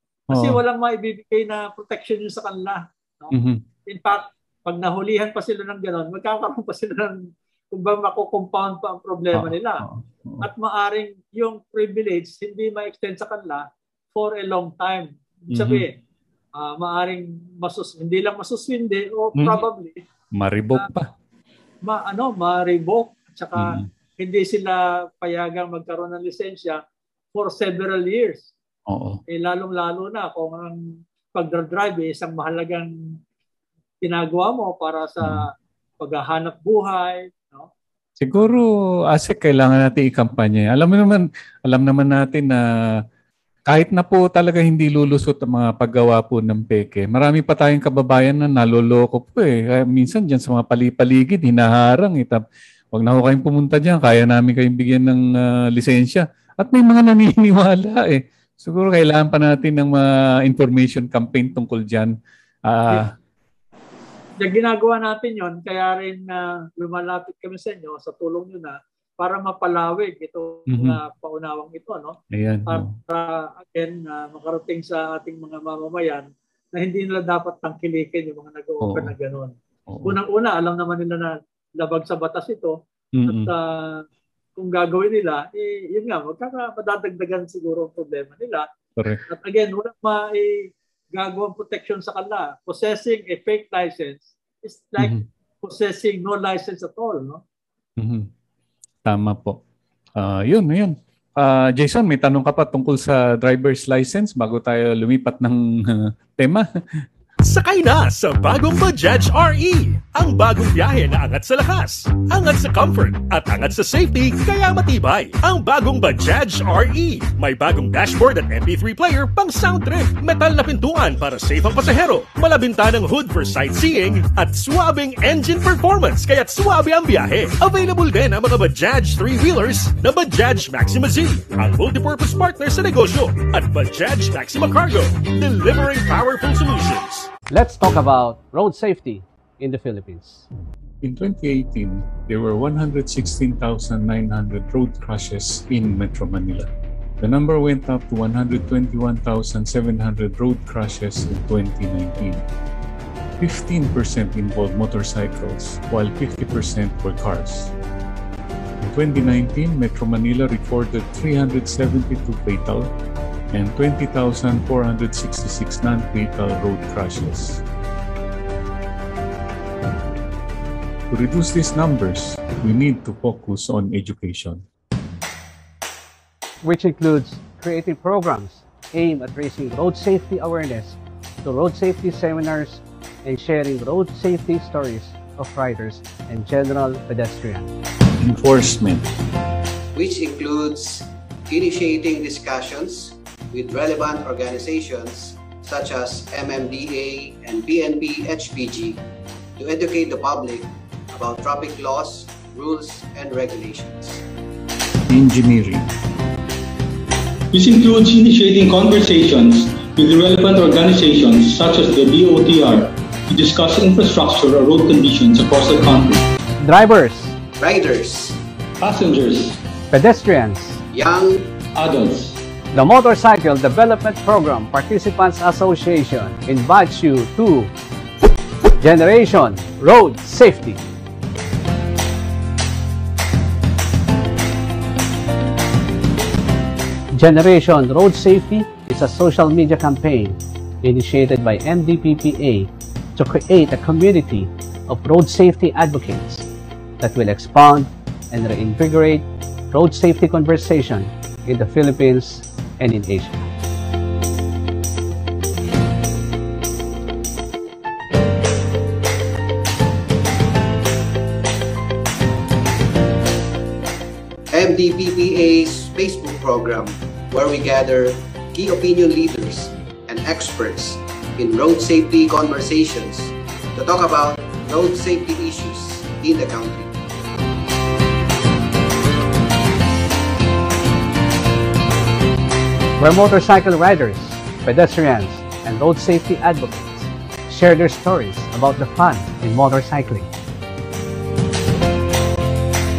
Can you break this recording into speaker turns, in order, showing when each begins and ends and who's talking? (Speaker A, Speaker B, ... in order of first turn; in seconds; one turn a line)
Speaker A: 0.3-0.6
Speaker B: 0.3-3.4
Speaker A: 3.3-3.6
Speaker B: 3.9-7.2
Speaker B: 7.7-9.8
Speaker A: 9.3-10.5
Speaker B: 10.4-15.9
Speaker A: 15.5-15.8
Speaker B: 16.6-20.0
Speaker A: 19.4-19.6
Speaker A: 20.3-21.1
Speaker B: 21.9-26.8
Speaker A: 23.6-23.9
Speaker B: 27.3-28.5
Speaker A: 28.9-29.2
Speaker B: 29.3-30.8
Speaker B: 31.3-32.9
Speaker B: 34.0-37.7
Speaker A: 38.2-42.6
Speaker A: 43.7-52.4
Speaker A: 52.9-62.1
Speaker A: 62.7-63.1
Speaker B: 64.4-82.8
Speaker A: 70.7-71.0
Speaker A: 72.3-73.0
Speaker A: 78.8-79.1
Speaker A: 79.9-80.2
Speaker A: 83.2-83.5
Speaker B: 83.3-84.0
Speaker B: 84.6-88.7
Speaker A: 89.0-89.2
Speaker B: 89.3-97.4
Speaker A: 95.0-95.2
Speaker A: 98.0-98.3
Speaker A: 99.1-99.6
Speaker A: 100.2-107.1
Speaker C: 107.4-137.3
Speaker D: 137.5-140.4
Speaker A: 141.0-146.7
Speaker A: 147.2-152.4
Speaker A: 153.4-157.7
Speaker A: 158.8-162.9
Speaker A: 163.5-167.6
Speaker A: 171.1-174.6
Speaker D: 176.6-187.7
Speaker A: 188.2-189.1
Speaker E: 189.9-199.0
Speaker E: 199.6-204.2
Speaker A: 205.1-205.9
Speaker F: 207.5-216.2
Speaker D: 216.6-217.4
Speaker E: 217.6-218.4
Speaker F: 218.8-219.6
Speaker D: 219.9-220.8
Speaker E: 220.9-221.5
Speaker F: 221.8-222.4
Speaker D: 222.7-227.7
Speaker D: 228.8-230.8
Speaker D: 237.2-246.5
Speaker D: 247.0-253.5
Speaker E: 264.5-276.9
Speaker D: 283.0-290.3